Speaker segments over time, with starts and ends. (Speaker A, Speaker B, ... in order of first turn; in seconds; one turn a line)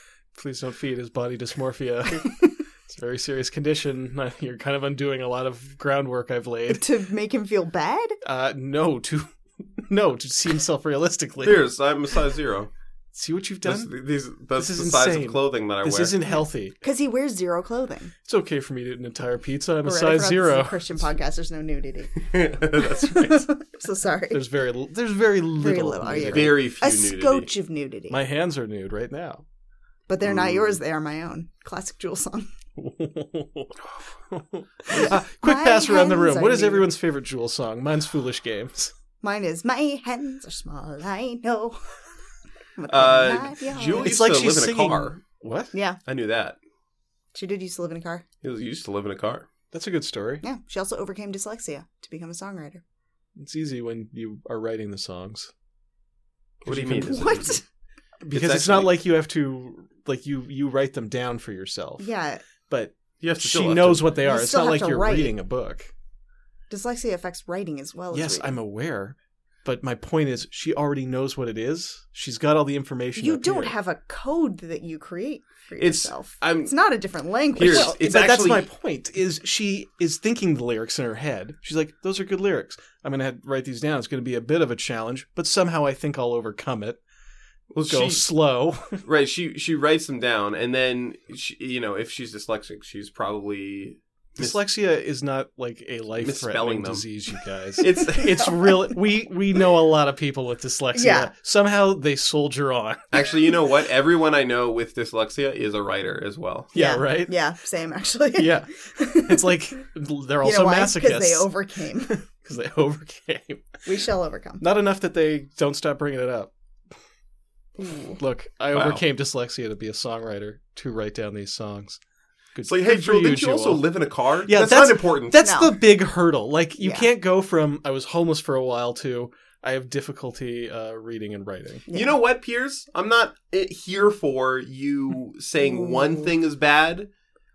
Speaker A: 0.3-6.8
Speaker B: 6.7-8.2
Speaker A: 8.2-11.7
Speaker C: 11.4-12.7
Speaker A: 13.1-13.9
Speaker C: 13.6-16.2
Speaker A: 14.6-16.8
Speaker B: 16.3-18.1
Speaker A: 18.3-21.0
Speaker B: 19.8-24.4
Speaker C: 22.3-23.4
Speaker A: 24.3-26.6
Speaker B: 25.6-28.2
Speaker C: 26.1-27.5
Speaker A: 28.1-29.4
Speaker B: 30.1-32.5
Speaker C: 30.3-30.8
Speaker A: 32.8-38.9
Speaker B: 34.9-36.9
Speaker B: 39.2-41.8
Speaker B: 42.8-44.1
Speaker C: 42.9-45.2
Speaker A: 43.8-45.7
Speaker B: 45.7-46.0
Speaker C: 46.1-46.6
Speaker B: 47.3-48.2
Speaker C: 48.4-49.5
Speaker A: 49.7-50.4
Speaker B: 50.4-52.8
Speaker A: 53.4-55.5
Speaker C: 56.6-57.5
Speaker A: 56.7-57.6
Speaker B: 57.0-57.6
Speaker A: 58.2-62.1
Speaker C: 58.3-59.0
Speaker B: 62.0-62.4
Speaker A: 62.7-65.9
Speaker C: 63.2-64.2
Speaker B: 64.2-65.4
Speaker B: 66.7-68.6
Speaker A: 68.1-73.7
Speaker B: 73.2-77.9
Speaker C: 75.8-76.7
Speaker C: 77.6-78.7
Speaker A: 77.6-87.0
Speaker C: 87.7-88.3
Speaker A: 87.9-89.0
Speaker C: 89.0-94.6
Speaker A: 94.4-103.2
Speaker C: 96.2-97.1
Speaker C: 97.8-98.4
Speaker B: 97.9-98.9
Speaker B: 100.9-101.3
Speaker C: 103.1-106.7
Speaker A: 106.7-107.4
Speaker B: 106.7-109.6
Speaker A: 108.3-111.5
Speaker B: 110.4-112.2
Speaker A: 112.1-113.8
Speaker B: 113.8-114.6
Speaker A: 114.6-116.5
Speaker B: 117.8-118.2
Speaker A: 118.2-122.0
Speaker C: 118.7-119.0
Speaker A: 122.5-123.8
Speaker C: 122.7-125.4
Speaker A: 124.5-131.8
Speaker B: 125.4-125.8
Speaker B: 126.8-127.1
Speaker B: 131.9-132.2
Speaker C: 131.9-137.1
Speaker B: 135.6-136.3